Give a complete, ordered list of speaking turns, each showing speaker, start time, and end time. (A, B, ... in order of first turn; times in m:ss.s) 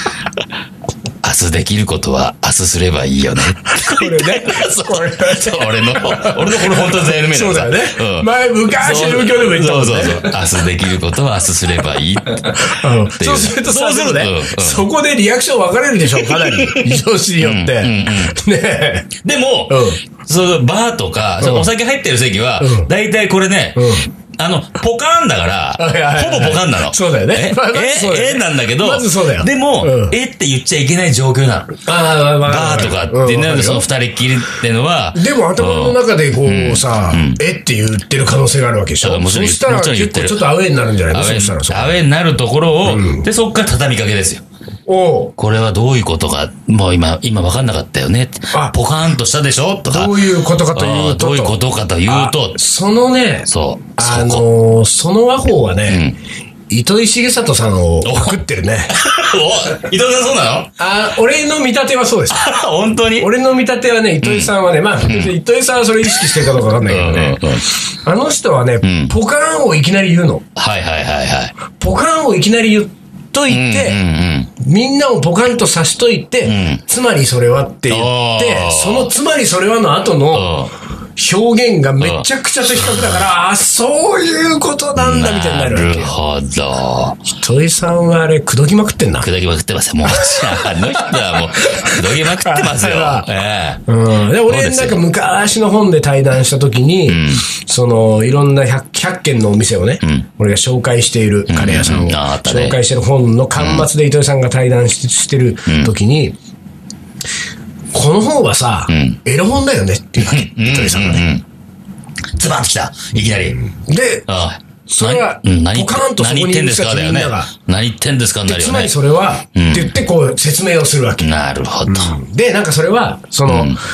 0:01.2-0:14.9 A
0:03.6-0:10.4 B
0:12.4-0:19.1 B
0:16.1-0:18.4 A
0:19.2-0:31.8 A
0:19.7-0:20.0 B
0:21.4-0:21.7 B
0:22.6-0:22.9 B
0:23.8-0:24.1 B
0:25.8-0:30.2 B
0:31.8-0:33.9 B
0:32.4-0:37.4 A
0:35.1-0:41.9 B
0:39.0-0:40.5 A
0:41.1-0:44.4 A
0:42.9-0:43.2 B
0:44.9-0:45.3 B
0:45.4-0:52.6 A
0:49.9-0:51.6 B
0:52.1-0:56.0 B
0:53.5-0:54.4 A
0:55.9-0:56.2 A
0:56.7-0:59.3 B
0:58.0-1:00.7 A
1:00.8-1:02.5 B
1:02.3-1:03.3 A
1:03.2-1:10.4 B
1:04.2-1:04.5 A
1:05.0-1:05.4 A
1:06.0-1:07.7 A
1:08.8-1:09.1 A
1:10.6-1:11.5 A
1:11.8-1:14.0 B
1:13.5-1:14.5 A
1:14.6-1:20.6 B
1:16.4-1:16.8 A
1:17.9-1:19.1 A
1:20.3-1:20.7 A
1:21.2-1:26.2 B
1:22.0-1:22.2 A
1:25.0-1:27.2 A
1:27.4-1:29.3 B
1:29.2-1:33.8 A
1:30.1-1:33.3 B
1:33.9-1:46.4 B
1:34.5-1:35.0 A
1:37.1-1:37.4 A
1:41.5-1:42.8 A
1:43.6-1:43.9 A
1:45.7-1:45.9 A
1:47.9-1:51.3 B
1:48.9-1:49.2 A
1:50.2-1:51.4 A
1:52.4-1:53.6 A
1:53.2-1:54.3 B
1:54.3-1:58.9 A
1:54.9-1:57.5 B
1:58.5-2:01.3 B
1:59.6-1:59.9 A
2:01.2-2:02.2 A
2:01.9-2:03.8 B
2:03.5-2:03.8 A